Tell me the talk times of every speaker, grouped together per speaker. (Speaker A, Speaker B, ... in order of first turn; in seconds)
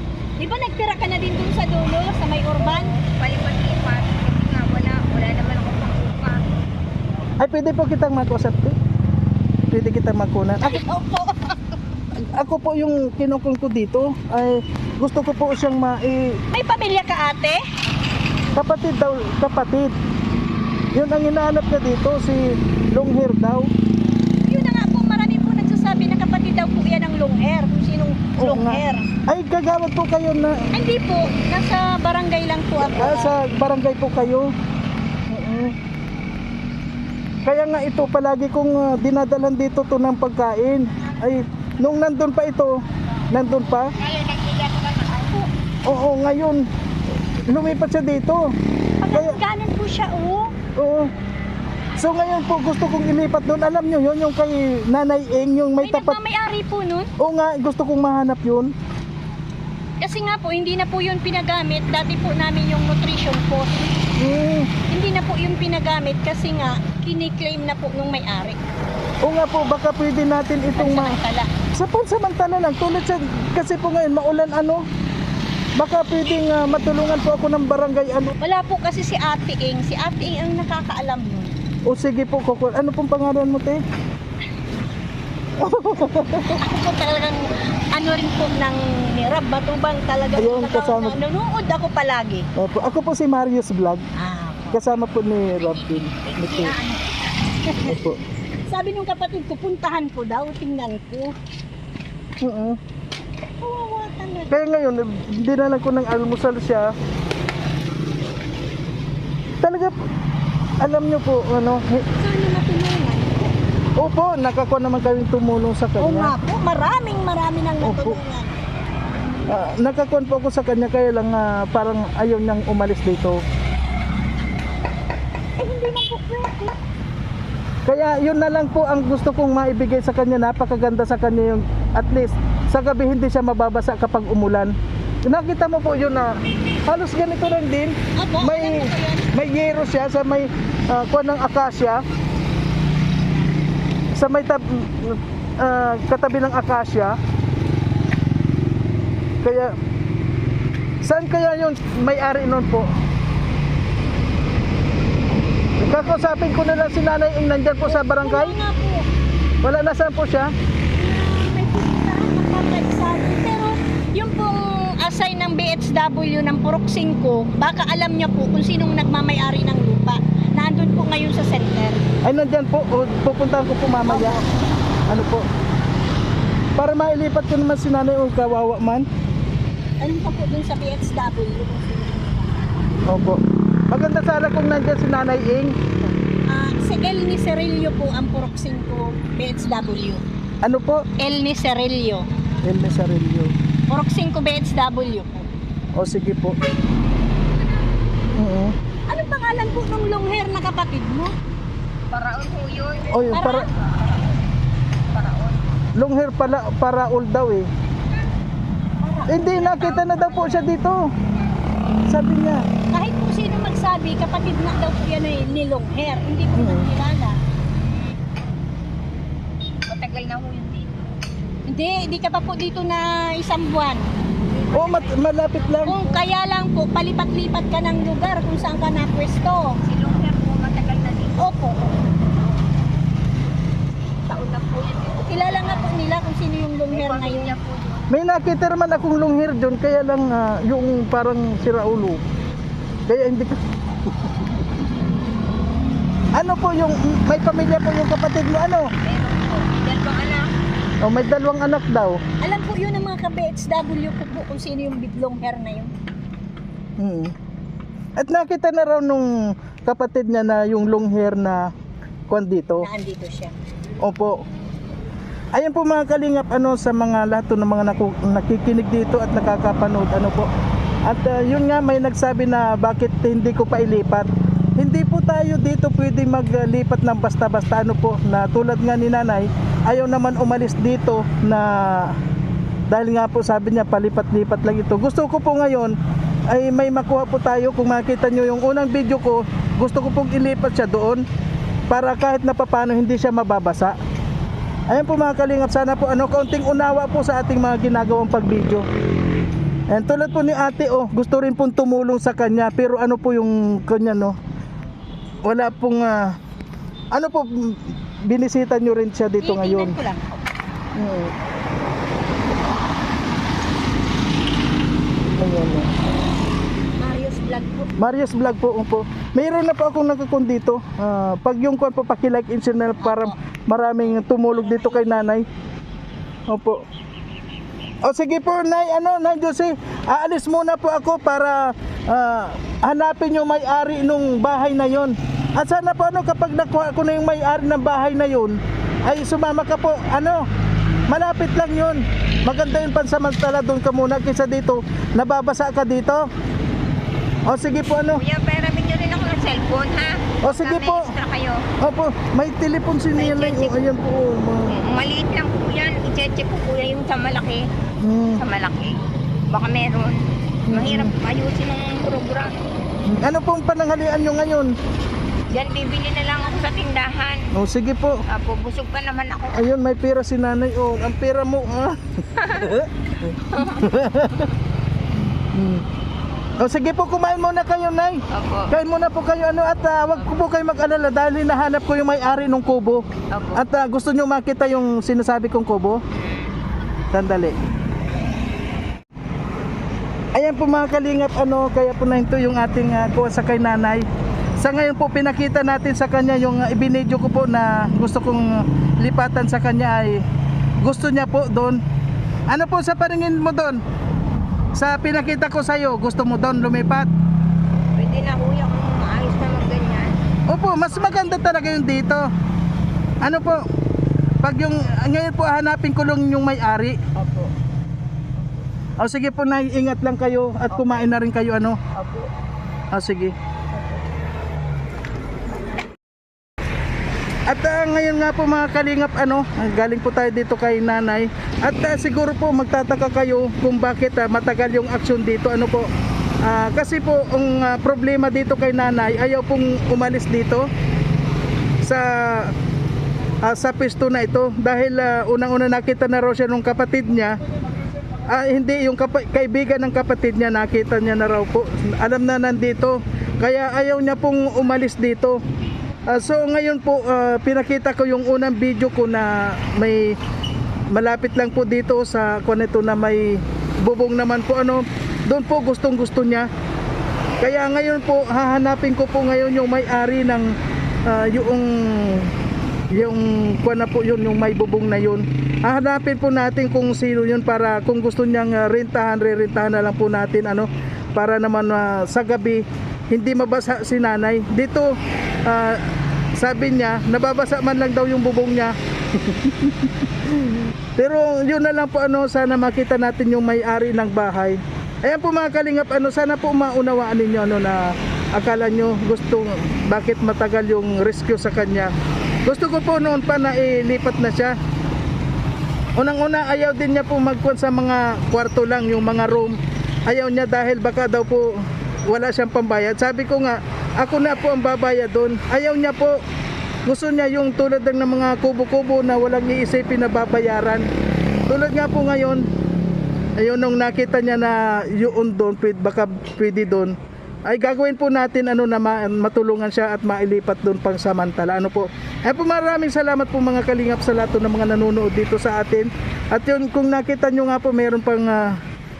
Speaker A: 0.4-3.0, 10.6-11.6, 16.5-17.6, 24.4-29.1, 30.7-33.4, 45.1-45.5, 49.0-50.5, 55.8-57.1, 60.0-63.9, 64.8-68.6, 70.7-71.5, 78.4-81.5, 86.5-92.5, 94.2-94.9, 96.3-97.0, 97.6-98.1, 98.7-101.3, 103.6-104.5, 112.1-113.5, 116.0-118.6, 125.6-126.7, 138.2-139.3, 157.8-159.0, 160.9-172.0, 174.0-174.7, 180.0-182.5, 186.5-190.2, 191.2-192.2, 193.9-195.5, 199.1-201.3, 203.3-203.7, 209.0-210.1, 212.9-217.3, 221.7-224.1, 225.8-229.8, 231.4-232.2, 235.2-237.6, 252.4-255.9, 262.8-263.6, 309.4-310.4, 317.0-317.9, 322.9-323.4, 324.0-325.3
Speaker B: 2.6-6.4, 44.0-45.2, 202.1-204.4, 205.1-205.7, 209.7-210.7, 219.9-221.0, 224.5-226.2, 229.8-231.5, 234.2-236.2, 236.9-238.1, 249.0-250.5, 348.1-351.6, 353.1-353.8, 354.7-357.6, 358.4-358.9, 359.5-360.2, 360.7-362.5, 365.5-367.4, 368.3-369.6, 372.4-372.7, 373.5-373.9, 378.3-378.7, 380.1-380.4, 383.3-383.6, 386.1-386.5, 407.9-410.2, 410.8-411.6, 417.1-417.5, 420.7-421.1, 421.9-422.3, 423.7-424.0
Speaker C: 7.4-8.8, 9.6-10.8, 12.3-16.4, 18.5-19.9, 20.9-23.7, 28.4-30.6, 32.8-34.5, 35.3-35.8, 37.4-42.8, 43.3-43.9, 45.8-46.6, 47.5-48.5, 49.1-49.4, 50.8-51.1, 52.0-56.2, 57.2-58.7, 64.2-64.7, 69.2-71.2, 71.7-74.8, 75.8-78.3, 81.8-83.8, 85.6-86.6, 90.3-91.2, 92.6-94.0, 94.7-96.8, 97.9-98.2, 102.4-102.8, 104.5-106.9, 109.6-110.0, 110.8-112.0, 114.0-116.3, 117.8-118.2, 119.5-123.4, 127.8-134.7, 135.2-136.3, 136.9-142.0, 144.1-147.2, 149.4-149.7, 151.0-152.9, 155.8-158.6, 159.6-160.5, 172.2-174.4, 175.1-175.4, 176.8-179.0, 183.1-185.7, 190.6-191.0, 192.6-193.5, 195.9-196.6, 198.3-198.7, 203.1-203.6, 205.9-207.7, 209.3-211.0, 212.1-212.6, 216.5-216.9, 224.7-225.9, 238.1-242.2, 243.1-243.5, 246.3-248.9, 251.0-252.2, 257.0-257.3, 258.2-259.3, 259.8-261.6, 262.3-262.9, 264.0-264.4, 265.5-270.5, 271.1-282.2, 282.9-285.9, 286.5-291.2, 291.9-294.0, 294.9-298.9, 299.9-304.4, 305.4-306.3, 307.1-310.0, 310.9-311.3, 315.4-315.9, 318.0-325.5, 326.5-326.8, 328.0-340.4, 341.1-346.2, 347.5-348.2, 350.4-351.0, 351.8-354.7, 358.0-358.4, 360.7-361.1, 363.1-364.7, 367.5-368.2, 369.5-371.9, 372.6-374.5, 375.5-375.8, 376.6-383.0, 383.5-386.0, 387.1-387.6, 390.3-394.1, 394.6-400.2, 400.8-401.8, 402.5-403.8, 404.7-407.1, 410.5-412.2, 413.2-413.6, 414.4-417.0, 419.0-421.8, 422.9-423.3, 427.5-435.9, 436.4-440.7, 441.8-442.5, 443.4-447.4, 448.3-455.4, 456.1-460.2, 460.9-466.5, 467.4-470.5, 471.1-472.3, 472.9-484.9, 485.4-497.8, 498.3-501.9, 502.4-504.5, 506.0-511.5, 512.1-516.2, 516.9-520.9, 521.5-522.4, 523.4-538.6